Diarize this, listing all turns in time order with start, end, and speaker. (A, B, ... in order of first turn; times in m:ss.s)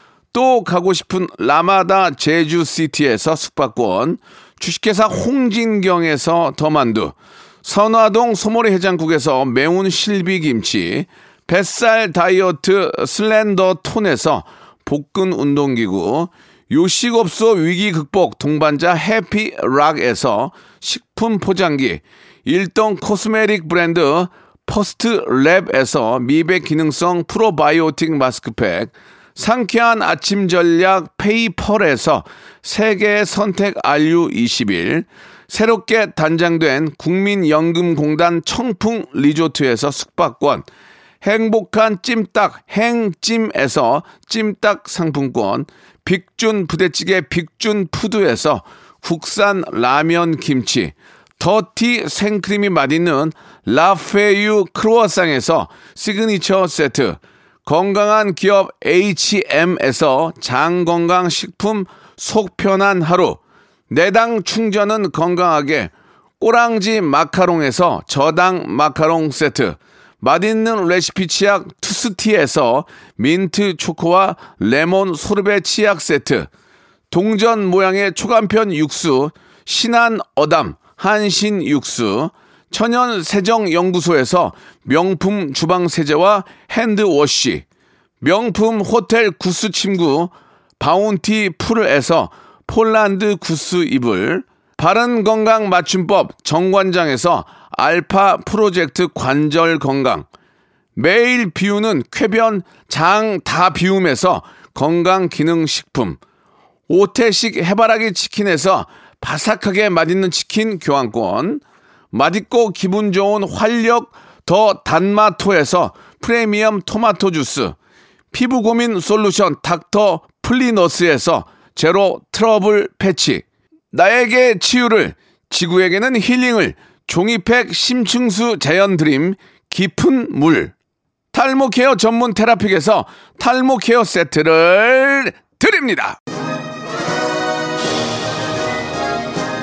0:00.3-0:40.7 A
0:41.2-1:16.5 A
1:17.1-1:27.6 A
1:28.2-1:40.3 A
1:41.0-1:46.2 A
1:46.9-1:57.8 A
1:58.3-2:10.7 A
2:11.3-2:16.2 A